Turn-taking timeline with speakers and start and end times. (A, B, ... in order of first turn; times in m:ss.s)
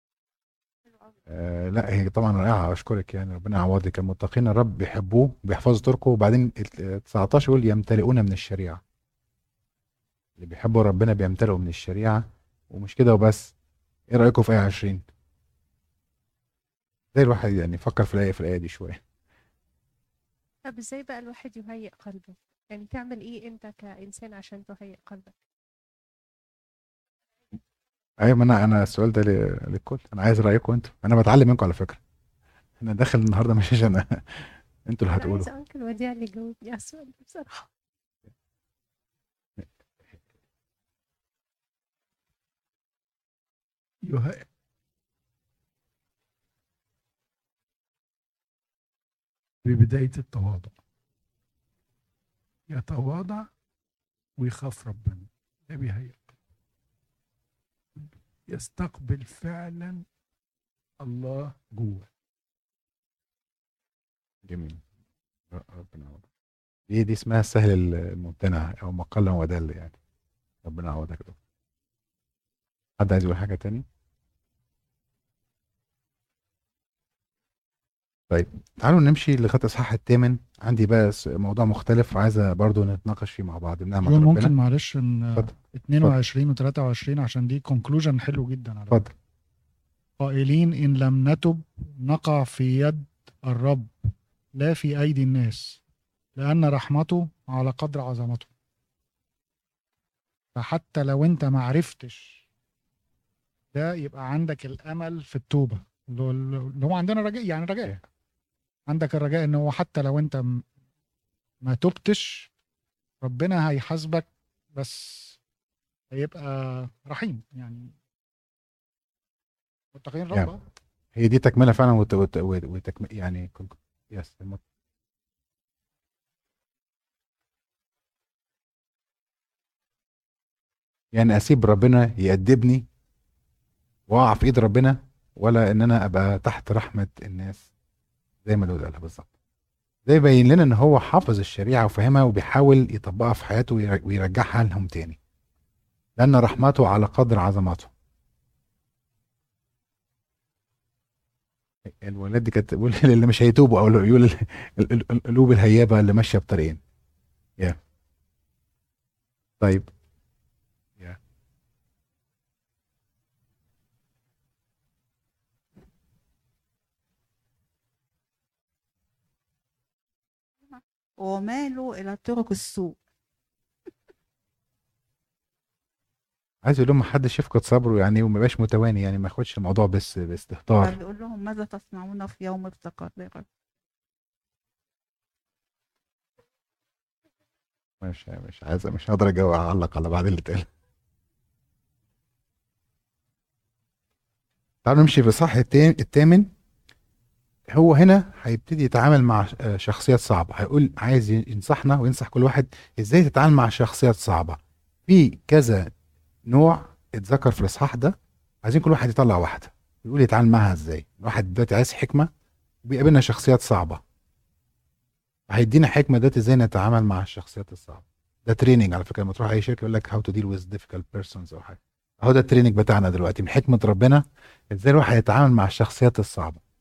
0:01.3-0:08.8 A
0:10.4-0:13.5 A
0:14.1-0:15.0 A
0:17.1-0:19.0 A
0:20.7-0:25.3 B
0:28.2-0:32.0 A
0:32.8-0:35.5 A
0:35.2-0:37.6 B
0:44.0-0:44.4 C
0:49.6-0:50.8 C
0:52.7-0:53.5 C
0:54.4-0:56.3 C
0:58.0-1:00.0 C
1:01.0-1:02.1 C
1:04.4-1:04.8 A
1:05.5-1:06.2 A
1:06.9-1:10.0 A
1:10.6-1:11.4 A
1:13.0-1:13.8 A
1:18.3-1:24.5 A
1:24.0-1:29.1 D
1:25.4-1:26.2 A
1:30.2-1:33.9 D
1:34.5-1:35.8 D
1:36.4-1:38.5 D
1:40.5-1:42.4 D
1:43.7-1:48.0 D
1:48.9-1:50.6 D
1:51.6-1:52.5 D
1:53.2-1:55.4 D
1:56.1-1:57.9 D
1:59.9-2:00.6 D
2:01.1-2:04.6 A
2:11.1-2:12.8 A
2:14.1-2:17.7 A
2:18.4-2:19.3 A
2:20.0-2:25.2 A
2:26.2-2:27.9 A
2:31.9-2:36.8 A
2:39.6-2:39.9 A
2:50.6-2:53.0 E
2:56.6-3:01.0 A
3:00.8-3:03.4 E
3:08.0-3:10.7 A
3:14.8-3:16.5 A
3:17.7-3:25.9 A
3:26.5-3:32.3 A
3:32.8-3:34.0 A
3:35.5-3:46.6 A